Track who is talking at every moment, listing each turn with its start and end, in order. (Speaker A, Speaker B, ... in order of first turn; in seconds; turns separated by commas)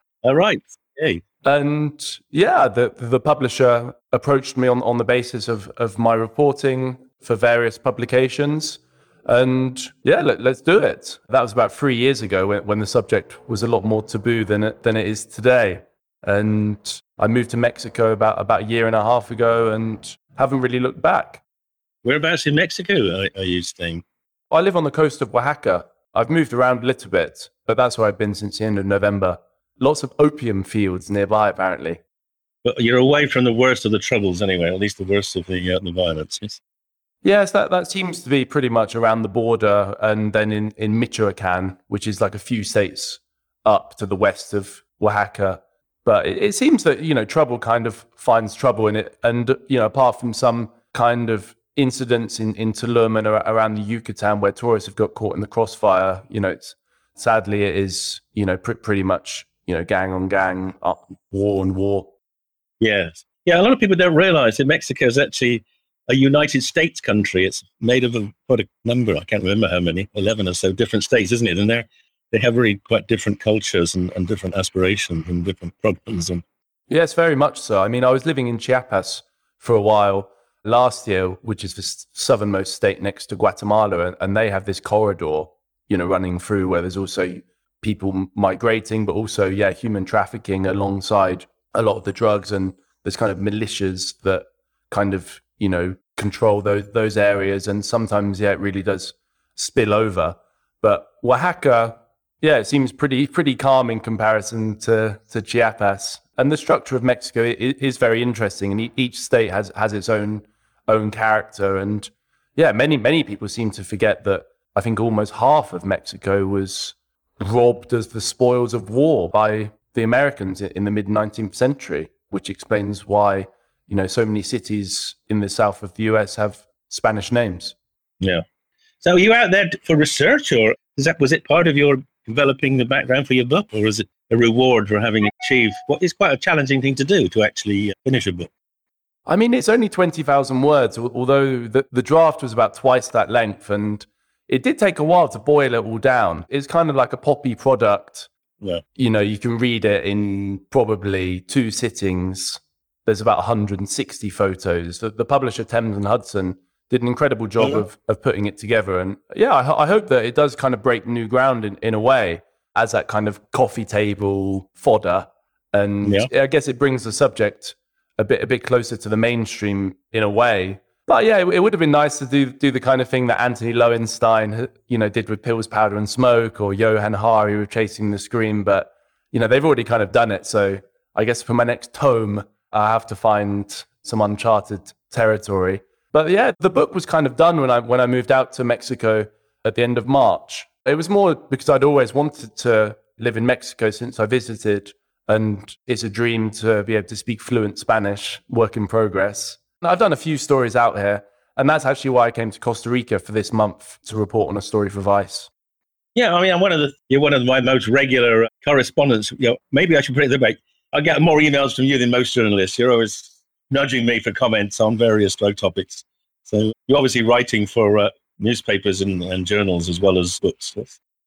Speaker A: 0.2-1.2, Speaker B: 1.4-21.4, Speaker A: 22.0-24.0, Speaker B: 24.5-32.0, Speaker A: 32.6-36.6, Speaker B: 37.2-62.1, Speaker A: 62.8-76.4, Speaker B: 76.9-127.8, Speaker A: 129.0-138.5, Speaker B: 139.3-148.3, Speaker B: 148.9-205.5, Speaker A: 206.1-221.0